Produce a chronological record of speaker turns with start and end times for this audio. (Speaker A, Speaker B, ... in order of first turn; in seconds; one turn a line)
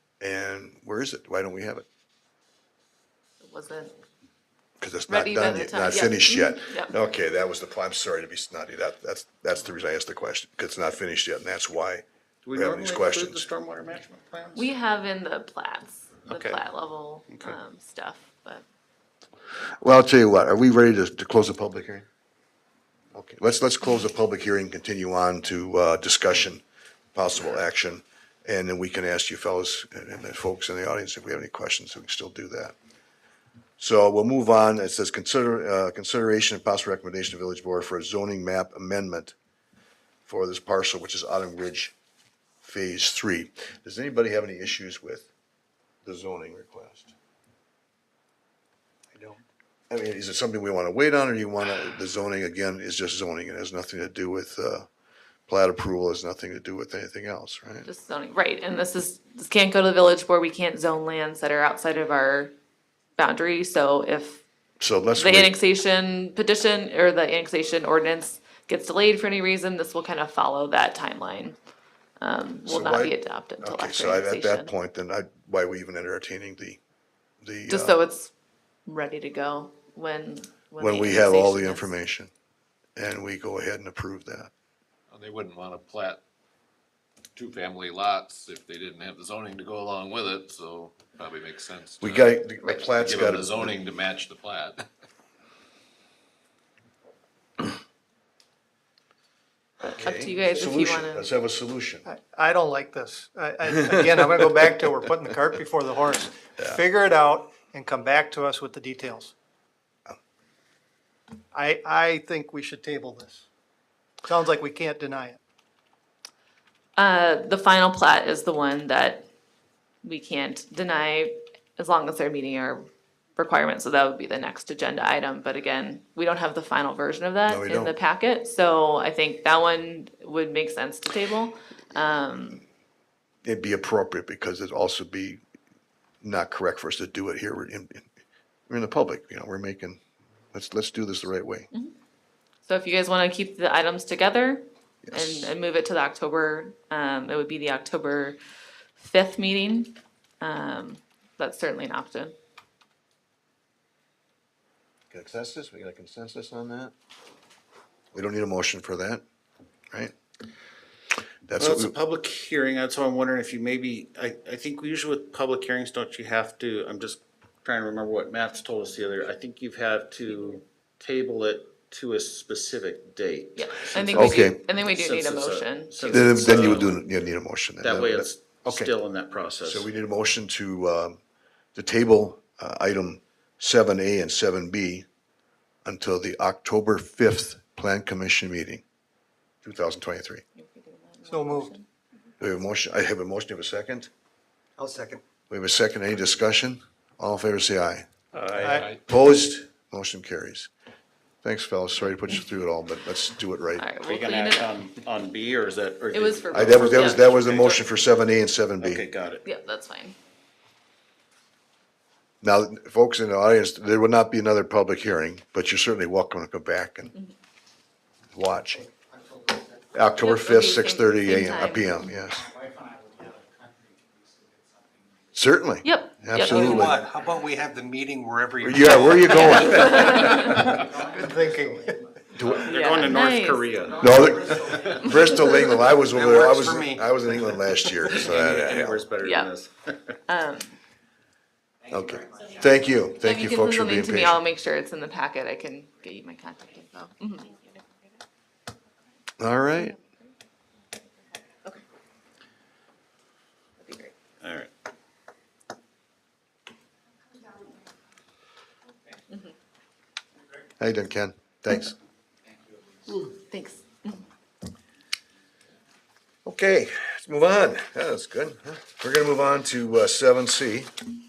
Speaker A: 0.2-1.9
Speaker B: 3.4-3.9
Speaker A: 4.8-12.0
Speaker B: 5.1-6.9
Speaker C: 12.4-14.7
Speaker A: 12.6-13.5
Speaker B: 14.6-18.6
Speaker C: 16.3-16.6
Speaker C: 17.3-17.6
Speaker A: 19.8-22.1
Speaker A: 23.1-26.6
Speaker A: 27.1-32.8
Speaker A: 33.8-39.4
Speaker A: 40.3-41.9
Speaker A: 42.6-45.3
Speaker A: 46.0-47.1
Speaker A: 49.9-54.9
Speaker A: 55.5-57.9
Speaker B: 57.9-62.5
Speaker B: 63.2-64.4
Speaker A: 64.8-65.5
Speaker B: 65.2-71.6
Speaker B: 72.2-74.7
Speaker A: 72.7-76.8
Speaker A: 77.4-78.0
Speaker B: 77.7-78.3
Speaker B: 78.9-81.9
Speaker A: 80.8-82.3
Speaker A: 83.0-84.5
Speaker D: 85.1-86.2
Speaker D: 87.4-92.3
Speaker A: 92.0-93.8
Speaker D: 93.0-94.8
Speaker A: 99.8-102.0
Speaker B: 99.8-101.3
Speaker E: 102.1-109.3
Speaker E: 111.5-113.5
Speaker E: 114.2-115.4
Speaker B: 117.0-119.3
Speaker B: 120.0-132.6
Speaker A: 127.5-127.9
Speaker A: 133.4-135.4
Speaker A: 136.2-138.1
Speaker A: 138.7-140.0
Speaker A: 140.5-141.7
Speaker B: 142.7-148.4
Speaker A: 145.1-145.5
Speaker B: 149.0-152.3
Speaker A: 155.1-156.9
Speaker A: 158.1-159.2
Speaker A: 161.5-161.9
Speaker C: 161.6-177.0
Speaker B: 170.2-170.6
Speaker B: 173.6-176.9
Speaker A: 174.1-174.6
Speaker A: 176.1-178.9
Speaker C: 177.8-179.9
Speaker A: 179.6-181.2
Speaker A: 181.8-185.1
Speaker A: 185.8-188.8
Speaker A: 189.6-190.4
Speaker B: 190.6-191.9
Speaker E: 191.3-191.7
Speaker A: 192.4-194.1
Speaker A: 195.5-198.1
Speaker E: 198.4-198.9
Speaker D: 198.7-199.0
Speaker A: 199.0-200.7
Speaker A: 201.4-203.9
Speaker B: 203.8-204.8
Speaker C: 204.0-207.8
Speaker B: 206.1-207.9
Speaker A: 206.5-209.0
Speaker C: 208.8-209.4
Speaker B: 209.4-210.2
Speaker A: 212.4-217.1
Speaker A: 218.3-218.9
Speaker A: 219.9-222.5
Speaker B: 220.2-222.1
Speaker A: 225.3-227.1
Speaker B: 225.8-226.9
Speaker F: 226.4-230.7
Speaker A: 228.6-230.5
Speaker B: 229.3-230.7
Speaker E: 231.1-231.9
Speaker A: 232.3-232.7
Speaker C: 232.5-234.8
Speaker B: 232.6-233.8
Speaker A: 234.0-239.0
Speaker F: 236.0-238.3
Speaker C: 238.2-240.0
Speaker B: 239.2-239.5
Speaker B: 240.3-240.8
Speaker A: 241.9-244.4
Speaker B: 243.2-247.6
Speaker A: 249.4-249.9
Speaker B: 249.8-250.1
Speaker B: 253.8-254.1
Speaker C: 254.4-254.7
Speaker A: 260.8-262.0
Speaker B: 263.2-264.2
Speaker A: 266.4-270.9